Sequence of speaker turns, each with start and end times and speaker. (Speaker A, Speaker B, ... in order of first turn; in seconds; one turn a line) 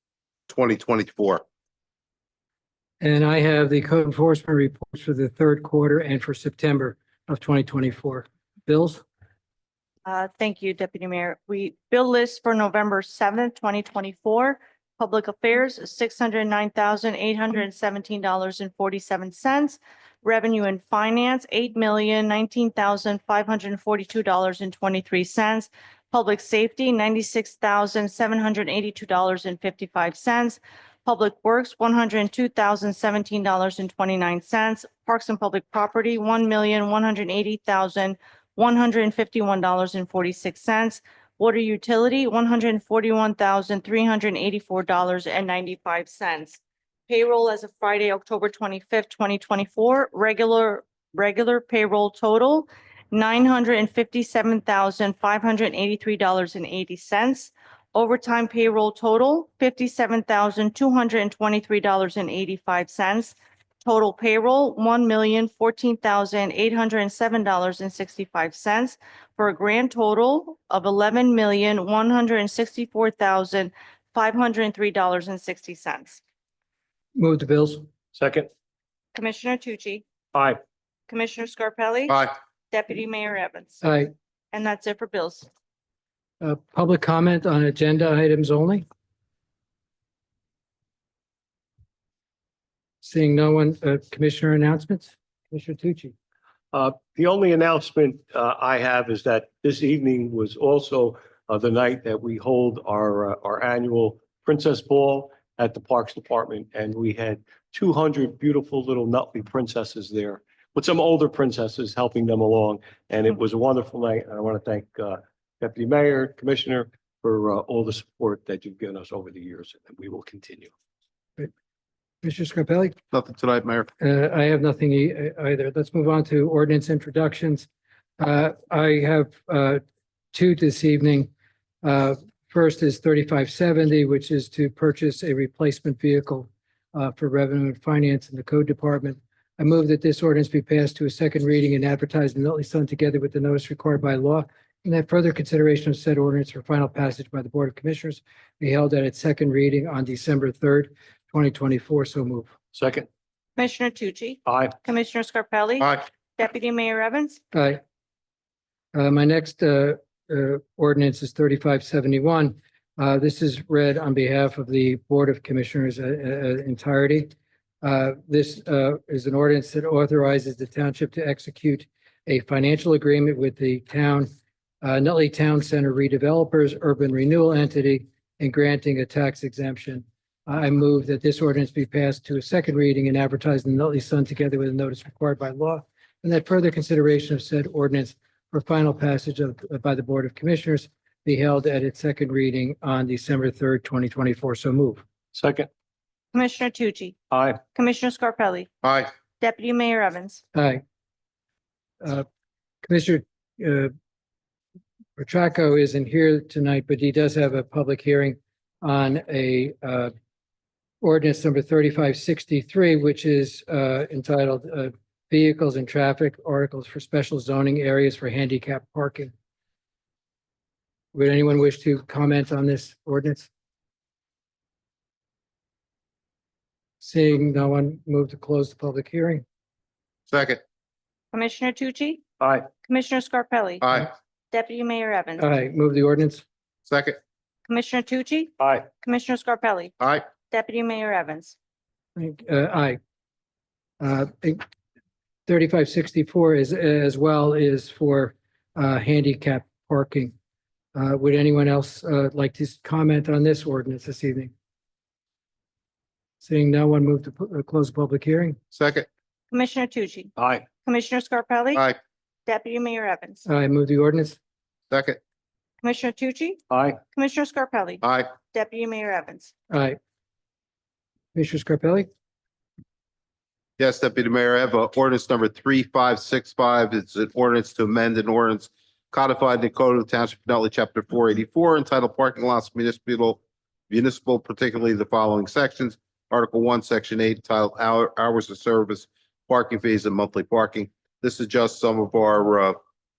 Speaker A: 0.5-1.4
Speaker B: 3.0-9.0
Speaker C: 10.1-76.2
Speaker B: 77.2-77.9
Speaker D: 78.1-78.5
Speaker C: 79.2-80.0
Speaker D: 80.3-80.6
Speaker C: 81.1-83.8
Speaker B: 83.8-84.1
Speaker C: 84.5-85.5
Speaker B: 86.4-88.9
Speaker B: 93.0-96.1
Speaker D: 96.7-120.7
Speaker B: 122.2-123.0
Speaker A: 123.1-123.9
Speaker B: 124.0-127.7
Speaker B: 128.2-129.8
Speaker B: 130.3-131.3
Speaker B: 131.8-152.5
Speaker D: 152.7-153.1
Speaker C: 153.6-157.4
Speaker D: 154.5-154.8
Speaker B: 157.5-157.8
Speaker B: 158.9-174.3
Speaker B: 174.8-195.0
Speaker D: 195.3-195.7
Speaker C: 196.3-197.2
Speaker D: 197.3-197.6
Speaker C: 197.7-198.7
Speaker A: 198.8-199.1
Speaker C: 199.4-200.4
Speaker B: 200.5-200.8
Speaker B: 202.0-202.3
Speaker B: 202.8-203.9
Speaker B: 205.2-210.1
Speaker B: 211.0-219.3
Speaker B: 221.1-223.5
Speaker B: 227.0-229.4
Speaker A: 230.3-230.6
Speaker C: 231.3-232.2
Speaker D: 232.4-232.7
Speaker C: 232.8-233.8
Speaker A: 233.8-234.1
Speaker C: 234.5-235.4
Speaker B: 235.4-236.4
Speaker A: 236.9-237.2
Speaker C: 237.7-239.9
Speaker D: 238.6-238.9
Speaker A: 240.0-240.2
Speaker C: 240.5-241.6
Speaker B: 242.2-243.0
Speaker B: 244.0-244.6
Speaker B: 245.5-250.3
Speaker B: 250.9-254.5
Speaker B: 256.4-258.6
Speaker A: 258.7-259.1
Speaker C: 259.5-260.3
Speaker D: 260.4-260.6
Speaker C: 260.9-261.8
Speaker C: 262.5-263.4
Speaker B: 263.5-264.4
Speaker A: 264.9-265.2
Speaker C: 265.8-266.6
Speaker D: 266.7-267.0
Speaker C: 267.1-268.0
Speaker A: 268.0-268.3
Speaker C: 268.5-269.5
Speaker B: 269.7-270.0
Speaker B: 271.3-272.1
Speaker A: 273.8-292.8